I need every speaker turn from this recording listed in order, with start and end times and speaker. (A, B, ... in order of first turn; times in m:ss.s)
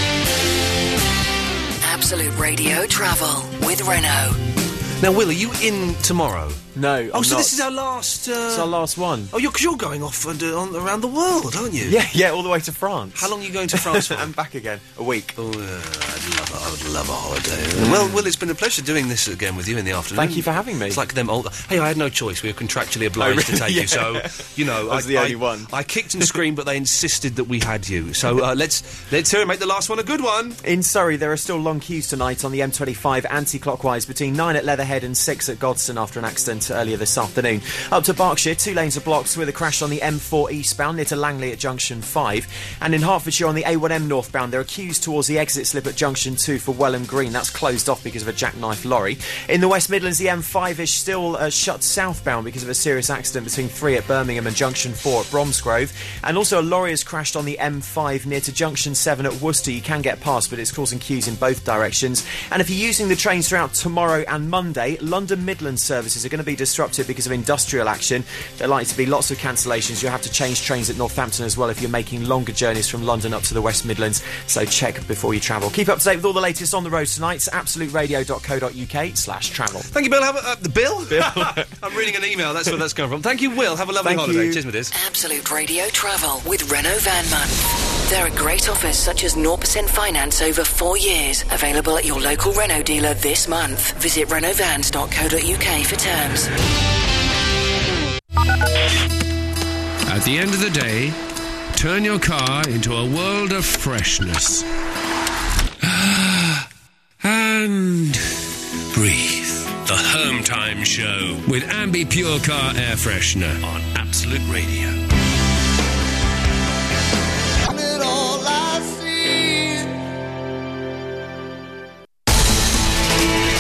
0:01.8-0:04.4 A
0:05.0-0:06.6 B
0:06.8-0:07.6 C
0:07.1-0:08.8 B
0:08.5-0:09.3 C
0:09.3-0:12.0 B
0:11.8-0:15.4 C
0:13.2-0:14.3 B
0:15.4-0:30.6 B
0:17.8-0:18.2 C
0:20.1-0:21.0 C
0:23.2-0:26.2 C
0:30.6-1:19.9 C
1:19.9-1:24.9 B
1:21.1-1:21.7 C
1:24.0-1:24.6 C
1:24.9-1:36.5 A
1:40.1-1:41.2 D
1:41.7-1:44.7 D
1:45.8-1:46.7 D
1:47.2-1:48.2 D
1:48.9-1:55.0 D